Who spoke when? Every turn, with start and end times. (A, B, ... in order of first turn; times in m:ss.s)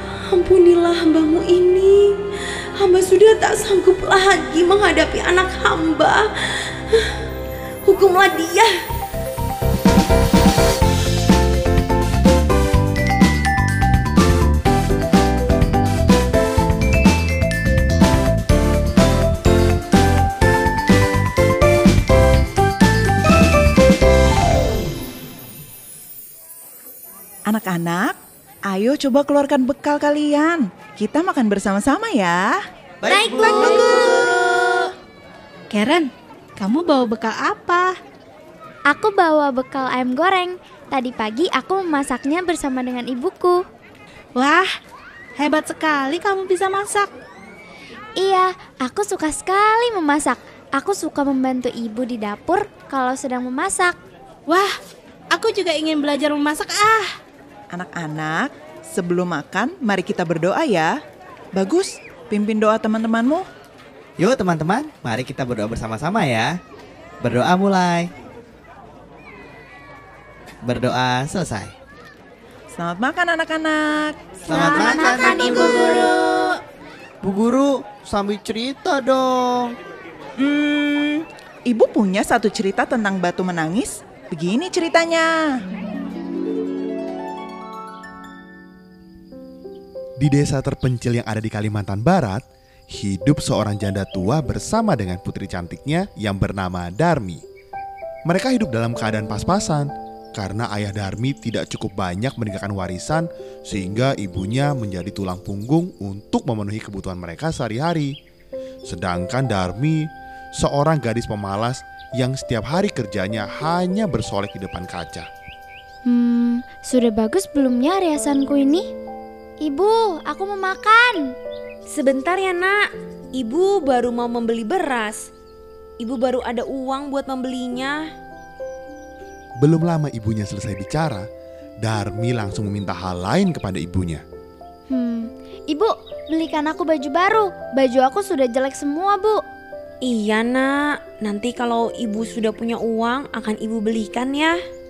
0:00.3-0:02.0 A
0:02.8-0:07.2 A
0:07.9-0:08.7 A
0:27.5-0:28.2 B
0:28.7-0:32.5 B
0:33.0-0:34.8 C
0:33.1-0:34.3 D
0:33.3-0:34.1 E
0:35.7-0:37.9 E
0:38.9-0:43.6 D
0:44.4-0:44.7 E
0:45.4-0:47.1 E
0:48.2-0:54.0 D
0:55.3-0:57.1 E
0:57.7-1:00.9 B
1:01.6-1:03.4 B
1:04.2-1:06.6 C
1:07.2-1:08.1 C
1:10.6-1:11.7 C
1:12.8-1:15.2 B
1:14.5-1:16.1 C
1:14.5-1:16.4 D
1:17.2-1:19.8 C
1:20.4-1:25.3 B
1:30.2-1:37.4 F
1:38.3-1:48.1 F
1:48.9-1:55.3 F
1:56.1-1:58.9 D
1:59.6-2:01.3 D
2:01.9-2:02.8 A
2:03.4-2:05.3 A
2:06.0-2:08.0 A
2:09.6-2:11.3 F
2:11.8-2:14.2 F
2:14.9-2:19.4 D
2:20.0-2:24.6 A